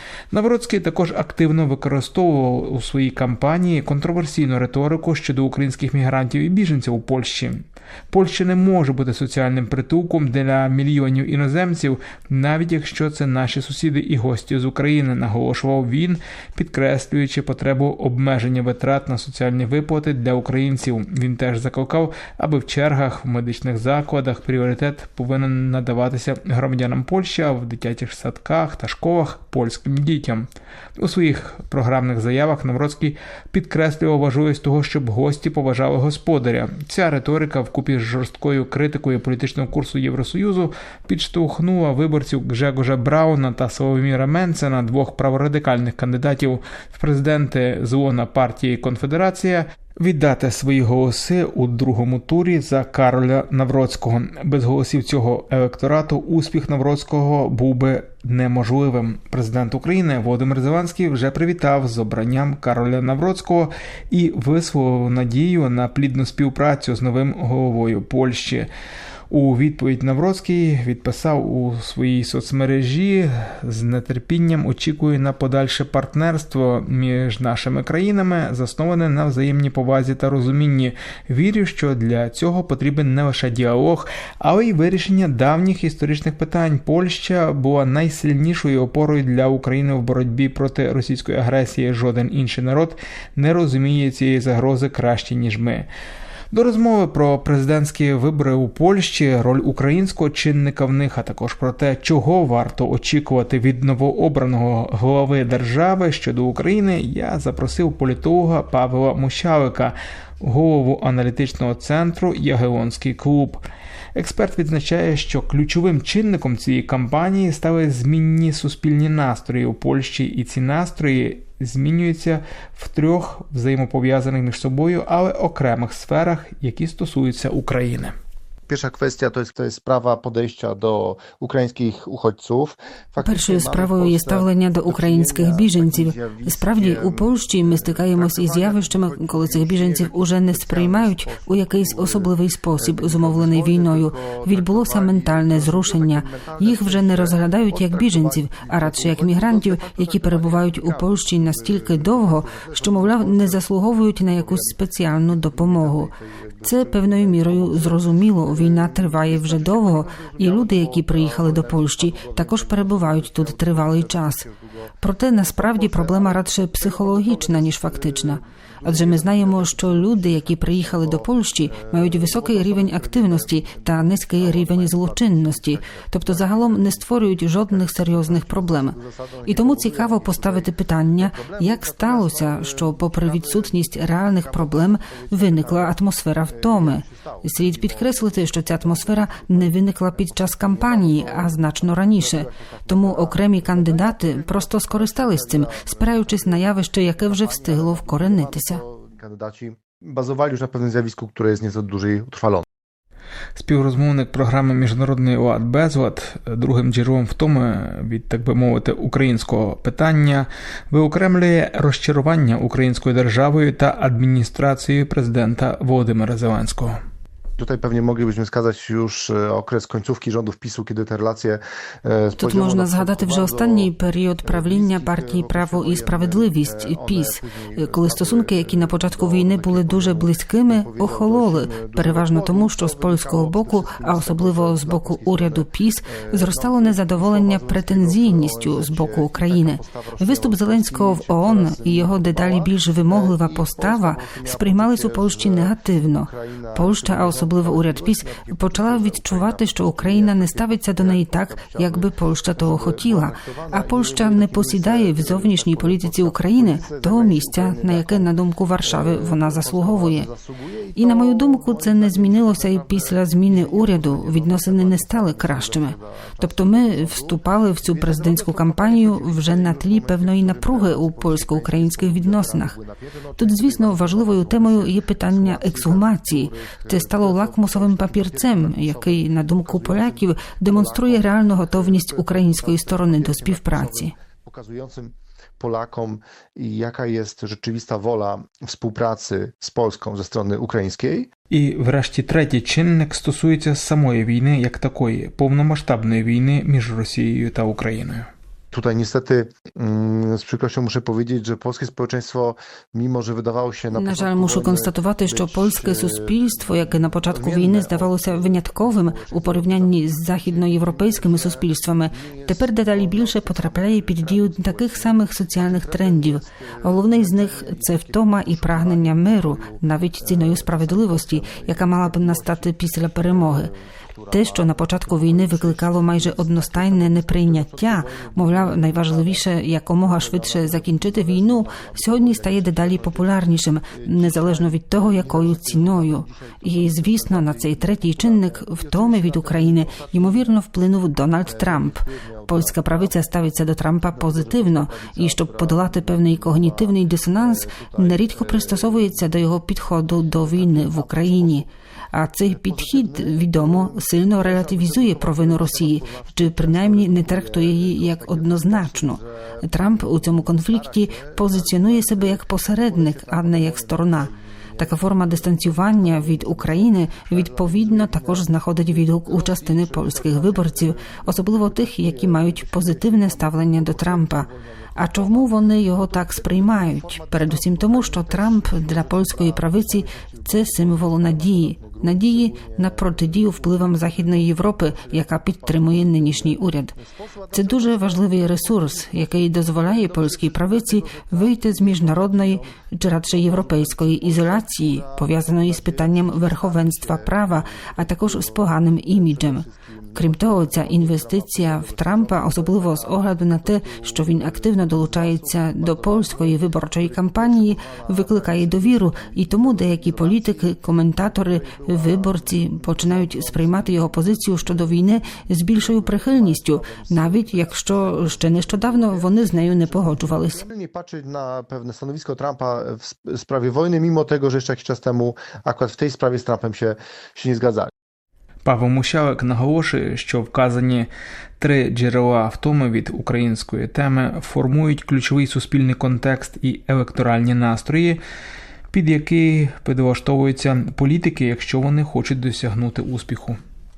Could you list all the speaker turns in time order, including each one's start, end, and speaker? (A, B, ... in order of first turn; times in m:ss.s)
0:00.3-1:08.7 A
1:09.3-1:35.9 A
1:36.5-1:53.6 A
1:54.1-2:08.1 A
2:08.7-2:33.7 B
2:13.2-2:36.1 C
2:34.3-2:44.9 B
2:36.6-2:44.4 C
2:45.0-3:18.8 C
2:45.5-3:22.6 B
3:23.6-3:37.0 A
3:37.6-4:51.3 B
3:42.4-4:20.3 C
4:21.0-4:32.7 C
4:33.4-4:44.1 C
4:51.5-4:58.3 A
4:58.7-5:29.5 B
5:03.9-5:23.7 C
5:24.3-6:26.9 C
5:30.0-5:40.6 B
5:41.4-5:43.2 B
5:44.1-5:49.3 B
5:50.3-5:51.7 B
5:52.4-6:55.1 B
6:27.5-7:00.6 C
6:55.7-7:07.9 B
7:08.6-7:11.1 A
7:11.6-7:18.2 A
7:18.9-7:23.6 A